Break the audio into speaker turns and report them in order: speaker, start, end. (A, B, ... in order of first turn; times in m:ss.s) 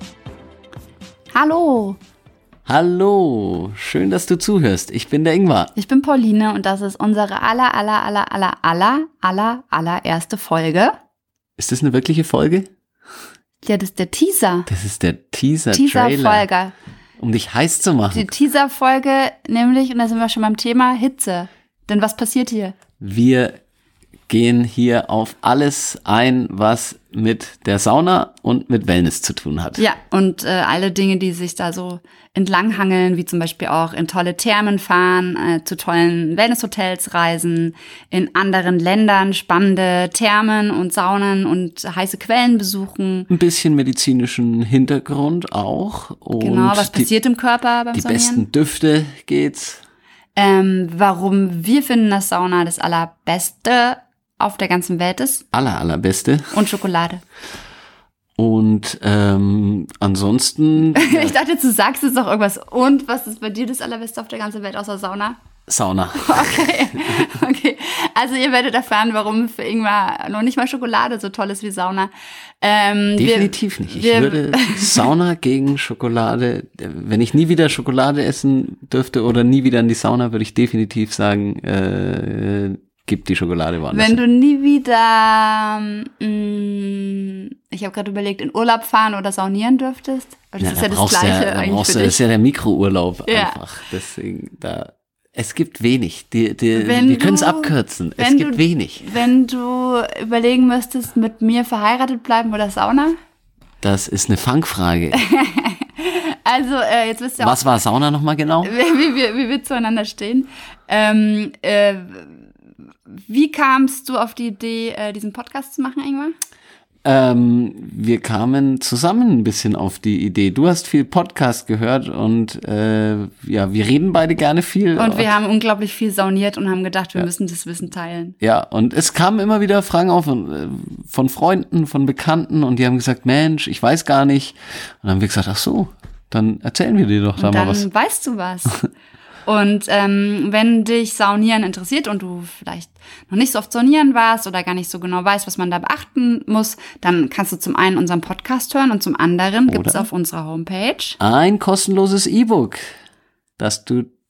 0:01.3-0:02.0 A
0:02.6-0:05.7 B
0:05.8-0:10.9 A
0:11.6-0:12.7 B
0:13.6-0:14.7 A
0:14.7-0:16.4 B
0:15.7-0:16.7 A
0:17.2-0:18.3 B
0:18.1-0:22.8 A
0:23.0-0:23.6 B
0:24.3-0:29.8 B
0:29.8-0:43.3 A
0:43.3-0:47.1 B
0:46.4-0:48.4 A
0:47.9-0:49.8 B
0:50.4-0:55.4 A
0:55.5-0:56.6 B
0:56.5-0:57.2 A
0:58.4-1:01.4 B
1:00.9-1:05.4 A
1:05.7-1:06.6 B
1:06.1-1:15.0 A
1:13.2-1:24.2 B
1:23.9-1:32.2 A
1:30.6-1:39.1 B
1:33.2-1:33.6 A
1:36.7-1:43.2 A
1:43.8-1:45.2 B
1:45.1-1:47.7 A
1:47.4-1:48.7 B
1:48.6-1:52.4 A
1:53.1-1:56.3 A
1:57.0-2:05.3 B
2:05.0-2:08.4 A
2:08.4-2:17.8 B
2:17.4-2:18.9 A
2:19.4-2:31.2 A
2:29.7-2:30.1 B
2:31.2-2:32.8 B
2:33.6-2:34.1 B